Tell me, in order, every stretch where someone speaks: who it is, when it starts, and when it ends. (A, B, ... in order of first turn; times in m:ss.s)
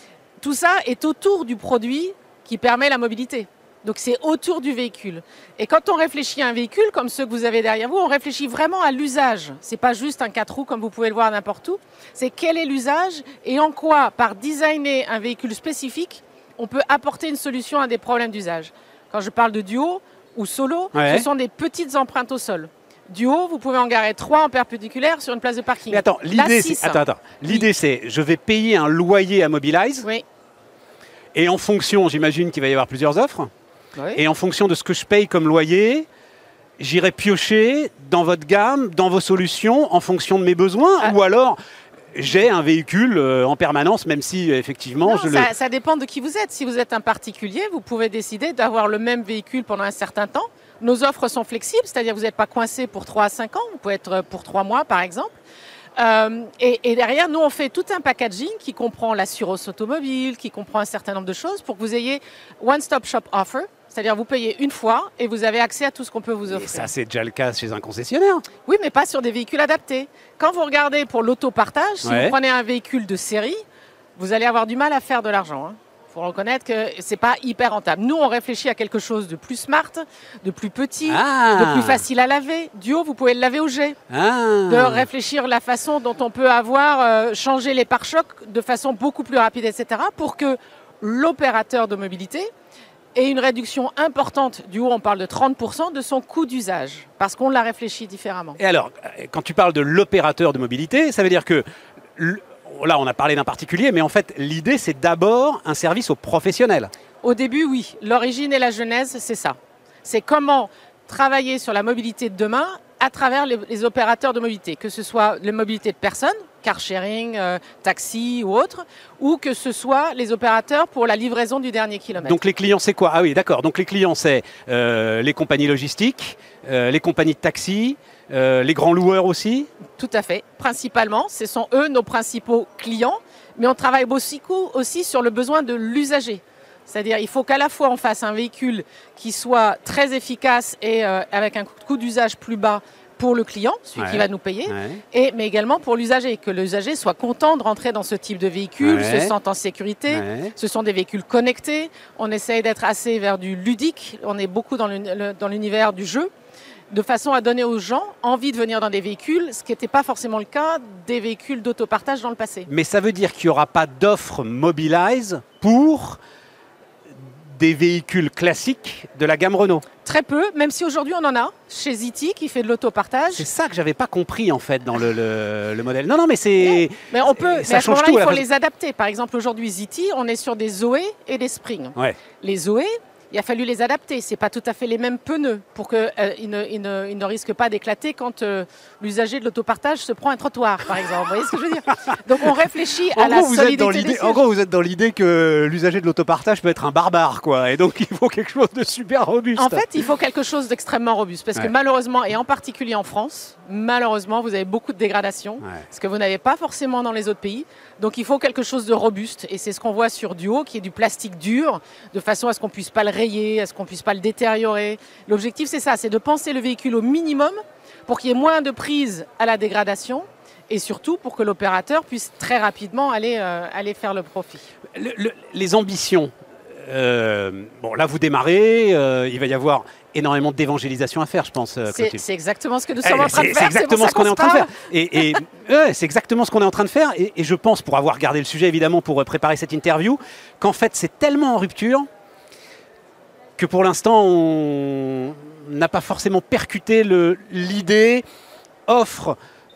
0:00.4-0:27.6 A
0:20.9-0:21.2 B
0:25.9-0:30.1 B
0:31.3-0:33.5 B
0:34.0-0:34.2 A
0:34.1-0:36.1 B
0:36.8-0:41.6 B
0:42.1-0:45.5 B
0:45.0-0:55.4 A
0:56.0-1:06.9 A
1:06.5-1:08.4 B
1:08.6-1:13.6 A
1:12.0-1:12.3 B
1:14.2-1:24.0 A
1:21.1-1:22.0 B
1:24.1-1:25.1 B
1:24.7-1:32.5 A
1:33.1-1:38.6 A
1:38.6-1:41.6 B
1:42.2-1:46.9 B
1:47.2-2:02.4 A
2:02.2-2:09.7 B
2:10.0-2:36.3 A
2:24.0-2:25.0 B
2:28.8-2:29.3 B
2:30.1-2:30.5 B
2:36.9-2:42.7 A
2:42.7-2:46.2 B
2:47.1-2:49.8 B
2:50.0-2:53.5 A
2:53.3-2:58.4 B
2:56.6-3:14.4 A
3:13.1-3:19.8 B
3:19.6-3:44.7 A
3:44.9-3:52.2 B
3:51.9-3:54.8 A
3:53.0-4:02.1 B
4:03.6-4:08.2 B
4:08.9-4:09.4 B